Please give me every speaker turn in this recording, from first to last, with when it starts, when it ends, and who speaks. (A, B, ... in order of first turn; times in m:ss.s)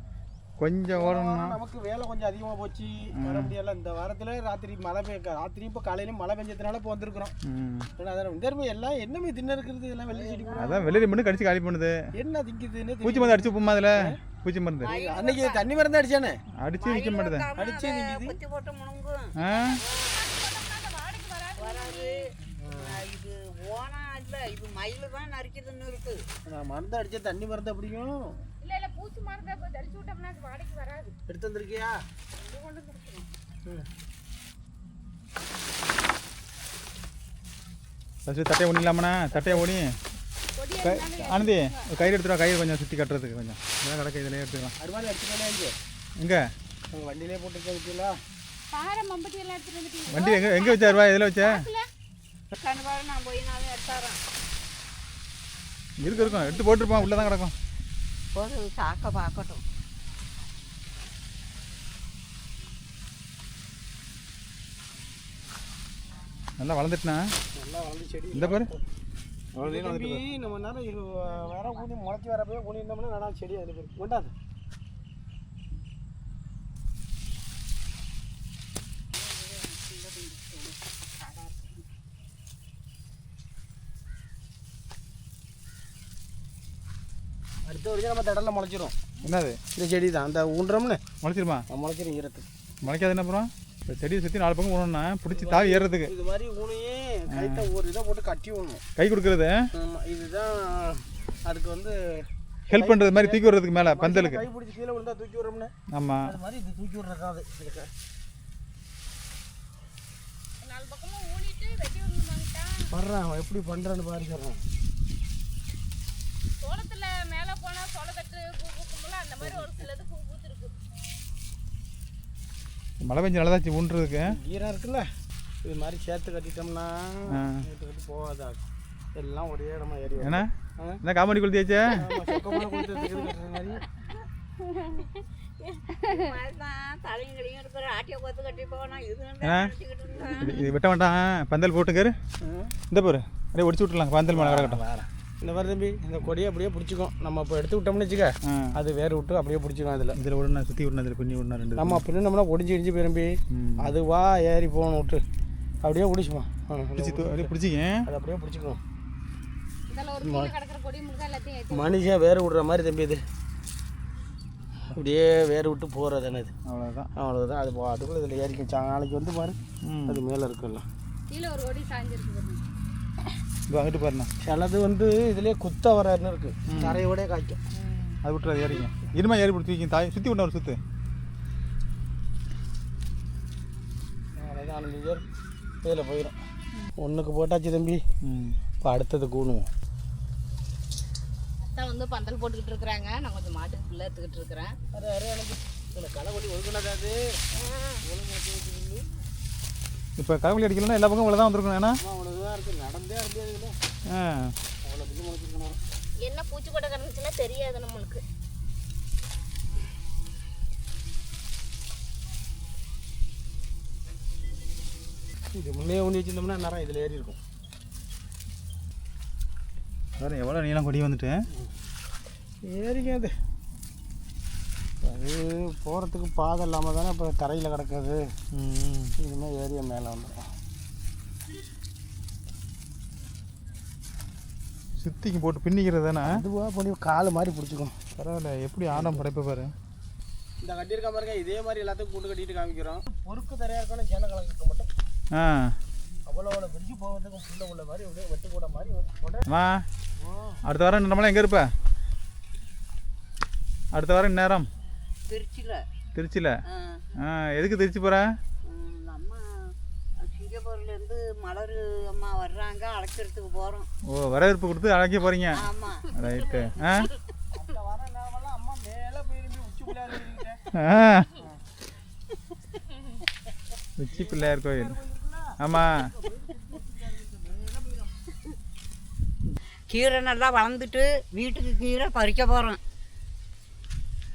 0:00.6-0:01.6 A
0:00.9-0:07.3 B
0:03.2-0:03.5 A
0:07.4-0:07.9 A
0:08.0-0:10.9 B
0:10.1-0:11.0 C
0:10.6-0:12.0 A
0:12.1-0:14.2 B
0:13.0-0:14.9 A
0:14.8-0:15.6 C
0:14.8-0:16.4 B
0:16.6-0:17.4 A
0:16.8-0:19.3 C
0:17.5-0:18.4 B
0:19.4-0:19.8 A
0:19.4-0:22.2 D
0:21.6-0:26.2 C
0:22.4-0:23.0 B
0:26.5-0:28.4 B
0:28.6-0:31.2 D
0:31.3-0:32.0 B
0:32.4-0:33.2 D
0:38.2-0:40.0 A
0:39.3-0:39.6 B
0:40.6-0:41.9 D
0:40.8-0:44.8 A
0:44.8-0:45.8 B
0:46.2-0:46.5 A
0:46.9-0:48.2 B
0:48.7-0:51.8 D
0:50.1-0:51.6 A
0:52.5-0:54.2 C
0:56.0-0:57.5 A
0:58.3-0:59.6 C
1:06.6-1:07.2 A
1:07.5-1:08.8 B
1:08.3-1:08.7 A
1:09.6-1:10.2 A
1:09.6-1:14.3 B
1:19.4-1:21.8 D
1:27.6-1:28.9 B
1:29.2-1:29.6 A
1:29.7-1:31.0 B
1:31.2-1:31.6 A
1:31.7-1:32.5 B
1:32.8-1:36.1 A
1:35.3-1:38.8 B
1:37.3-1:37.7 A
1:39.0-1:39.6 A
1:39.7-1:45.7 B
1:42.7-1:44.4 A
1:45.9-1:46.4 A
1:46.2-1:47.9 B
1:50.6-1:52.9 D
1:52.9-1:54.6 B
1:56.6-2:00.8 D
1:59.4-1:59.7 B
2:03.0-2:04.4 A
2:04.2-2:05.1 B
2:05.6-2:08.6 B
2:07.3-2:07.6 A
2:09.1-2:11.0 B
2:10.2-2:10.5 A
2:11.0-2:12.0 A
2:11.9-2:13.8 B
2:12.2-2:12.8 D
2:15.6-2:20.6 C
2:16.0-2:16.3 D
2:19.4-2:19.7 A
2:20.4-2:22.2 A
2:22.4-2:22.7 B
2:22.9-2:24.8 A
2:24.3-2:30.2 B
2:28.4-2:28.8 A
2:30.1-2:32.0 A
2:31.8-2:35.2 B
2:33.5-2:33.9 A
2:35.8-2:37.5 B
2:37.0-2:38.1 A
2:38.0-2:38.8 B
2:39.9-2:42.1 D
2:40.2-2:40.5 B
2:41.7-2:43.2 B
2:44.9-2:46.5 B
2:46.6-2:47.1 A
2:47.2-2:50.8 B
2:49.8-2:50.2 A
2:51.3-2:52.6 D
2:53.7-2:54.3 A
2:54.4-2:57.6 B
2:56.7-2:57.0 A
2:57.7-2:58.2 D
2:58.2-3:00.8 A
3:04.4-3:05.2 B
3:05.8-3:06.4 B
3:07.0-3:08.0 B
3:08.2-3:08.6 A
3:08.8-3:09.7 B
3:11.6-3:14.7 D
3:14.9-3:17.2 B
3:17.5-3:18.0 D
3:18.0-3:19.1 B
3:20.2-3:22.0 A
3:22.0-3:23.8 B
3:24.1-3:24.5 A
3:24.8-3:25.8 B
3:26.2-3:28.2 D
3:35.5-3:37.4 B
3:40.2-3:41.4 A
3:42.6-3:43.3 B
3:45.0-3:48.3 B
3:48.5-3:49.1 A
3:49.2-3:50.5 B
3:55.0-3:56.4 A
3:56.2-3:58.1 B
3:58.2-3:59.7 A
3:58.9-3:59.2 B
4:00.6-4:04.9 B
4:05.3-4:05.7 A
4:06.2-4:09.5 B
4:09.4-4:09.8 A
4:10.6-4:11.7 A
4:13.9-4:14.7 A
4:15.3-4:15.8 C
4:16.1-4:16.6 A
4:16.7-4:17.0 C
4:17.2-4:18.3 A
4:18.6-4:23.9 C
4:24.0-4:25.6 A
4:25.5-4:26.1 C
4:26.1-4:27.1 A
4:27.5-4:30.6 B
4:30.7-4:31.3 A
4:34.0-4:34.9 A
4:34.1-4:38.2 B
4:35.6-4:36.1 A
4:39.9-4:42.8 C